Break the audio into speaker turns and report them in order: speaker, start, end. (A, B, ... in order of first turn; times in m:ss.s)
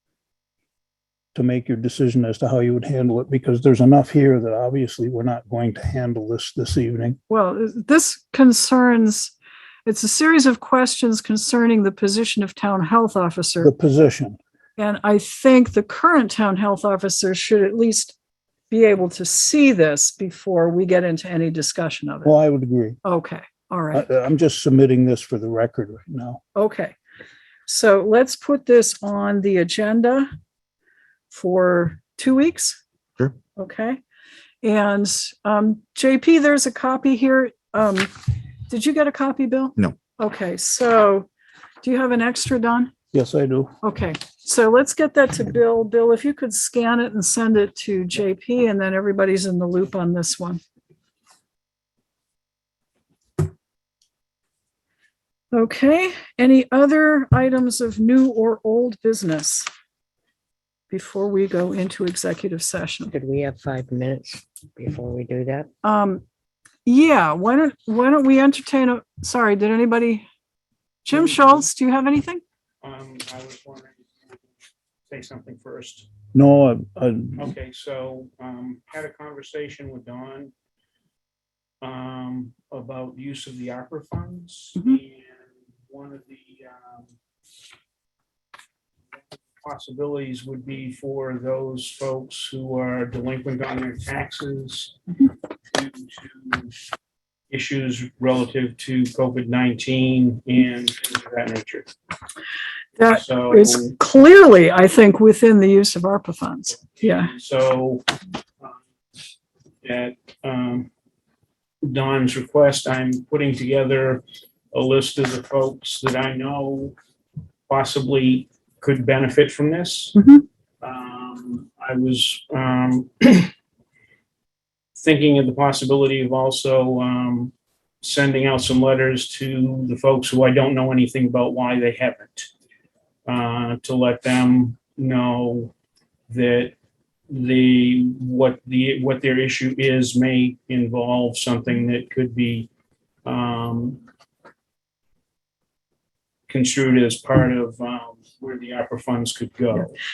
0:01.4-0:07.2 A
0:07.3-0:09.3 B
0:09.9-0:13.7 B
0:13.6-0:14.4 A
0:14.8-0:18.2 B
0:18.7-0:22.3 B
0:22.2-0:23.0 A
0:23.0-0:24.0 B
0:23.9-0:26.4 A
0:26.6-0:27.0 B
0:27.7-0:30.3 B
0:31.3-0:32.8 B
0:33.6-0:34.0 B
0:34.6-0:38.1 B
0:38.7-0:41.3 B
0:41.8-0:42.9 B
0:43.1-0:43.7 A
0:43.8-0:50.6 B
0:55.5-0:59.7 B
1:00.9-1:03.1 B
1:03.1-1:05.7 C
1:05.8-1:06.2 B
1:06.8-1:10.3 B
1:11.0-1:12.4 B
1:11.2-1:11.5 D
1:12.8-1:14.1 D
1:15.1-1:16.1 D
1:16.3-1:17.5 A
1:17.4-1:20.5 D
1:21.8-1:27.1 D
1:29.6-1:35.0 D
1:35.7-1:36.8 D
1:37.5-1:41.9 D
1:43.0-1:47.3 B
1:43.0-1:43.9 D
1:47.0-1:48.1 D
1:49.8-1:50.9 D
1:51.8-1:57.0 D
1:57.7-2:00.2 D
2:00.2-2:00.4 B
2:00.8-2:03.5 D
2:05.0-2:12.5 D
2:13.3-2:15.7 D
2:16.3-2:16.8 D
2:17.3-2:22.7 D
2:23.2-2:24.0 D
2:26.5-2:29.9 D